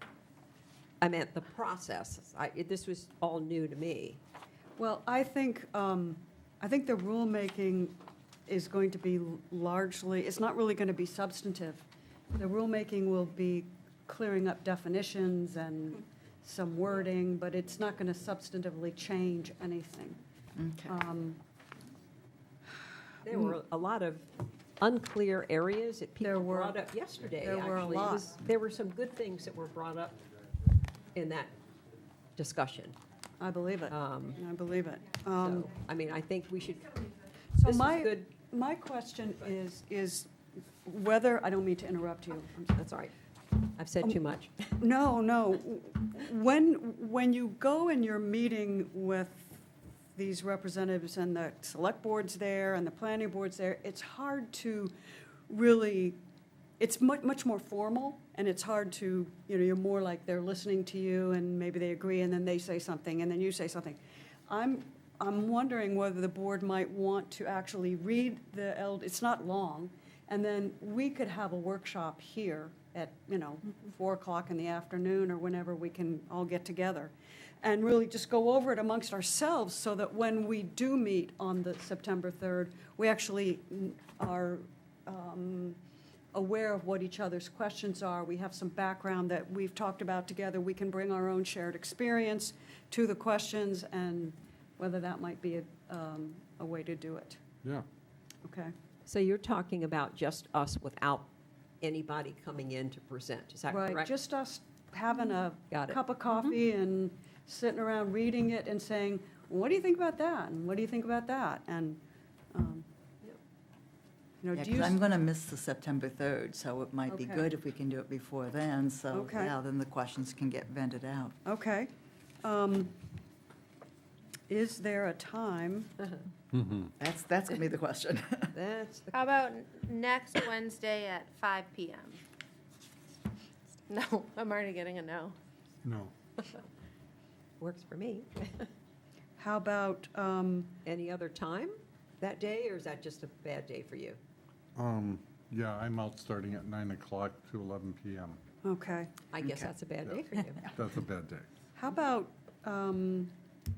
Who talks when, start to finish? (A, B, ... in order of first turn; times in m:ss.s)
0:01.0-0:04.2 A
0:04.8-0:20.2 B
0:20.6-0:21.0 C
0:20.9-0:21.4 B
0:23.2-0:30.2 A
0:26.2-0:26.8 B
0:27.4-0:28.3 B
0:31.1-0:31.5 A
0:32.4-0:33.0 A
0:33.4-0:35.7 B
0:33.9-0:34.4 A
0:35.4-0:37.1 A
0:37.6-0:40.3 B
0:37.6-0:38.3 A
0:40.8-0:42.7 B
0:42.7-0:44.6 A
0:44.8-0:49.6 B
0:50.2-0:54.9 B
0:55.5-0:56.2 B
0:56.8-1:25.8 B
1:26.3-1:37.4 B
1:38.4-1:38.7 B
1:39.0-1:41.3 A
1:41.8-1:44.1 A
1:43.7-1:52.0 B
1:45.7-1:46.0 A
1:52.5-1:52.9 B
1:54.4-1:55.0 B
1:54.5-2:01.4 C
1:57.1-1:57.5 B
1:59.1-1:59.5 B
2:01.4-2:01.9 B
2:02.4-2:03.0 B
2:04.5-2:05.9 B
2:06.5-2:06.9 D
2:07.0-2:08.5 C
2:08.5-2:09.3 A
2:09.1-2:12.2 E
2:13.9-2:15.4 E
2:15.8-2:16.1 D
2:17.6-2:18.7 A
2:19.4-2:20.8 B
2:20.8-2:24.2 A
2:24.8-2:28.4 D
2:28.6-2:29.1 B
2:29.3-2:30.6 A
2:29.4-2:29.7 C
2:30.0-2:31.5 D
2:31.8-2:33.3 B